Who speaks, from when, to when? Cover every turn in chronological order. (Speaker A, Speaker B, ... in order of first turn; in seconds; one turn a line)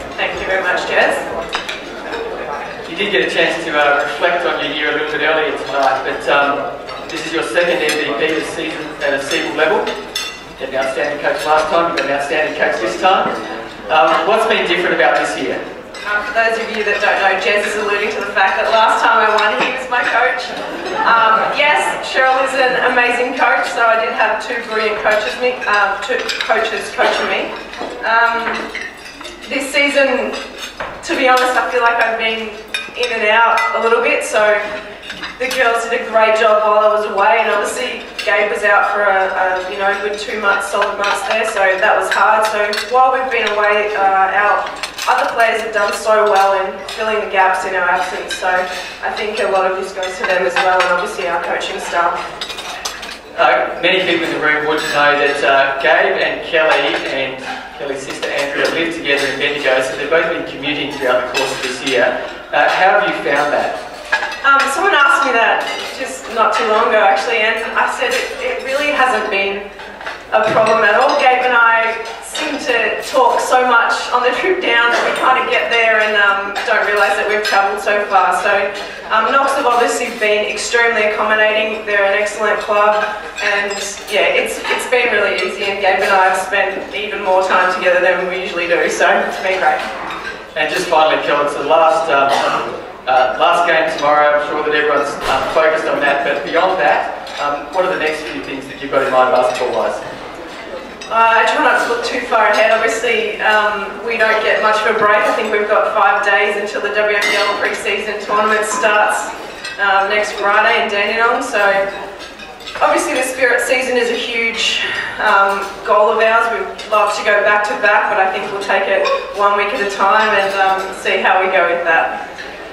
Speaker A: 0.2-1.3
Speaker B: 2.9-9.9
Speaker B: 10.6-13.3
Speaker B: 13.9-15.6
Speaker A: 16.0-28.7
Speaker A: 29.4-30.4
Speaker A: 31.0-34.7
Speaker A: 35.4-52.3
Speaker B: 53.4-63.8
Speaker A: 64.4-69.7
Speaker A: 70.3-89.8
Speaker B: 90.5-100.0
Speaker A: 101.1-111.9
Speaker A: 112.8-122.2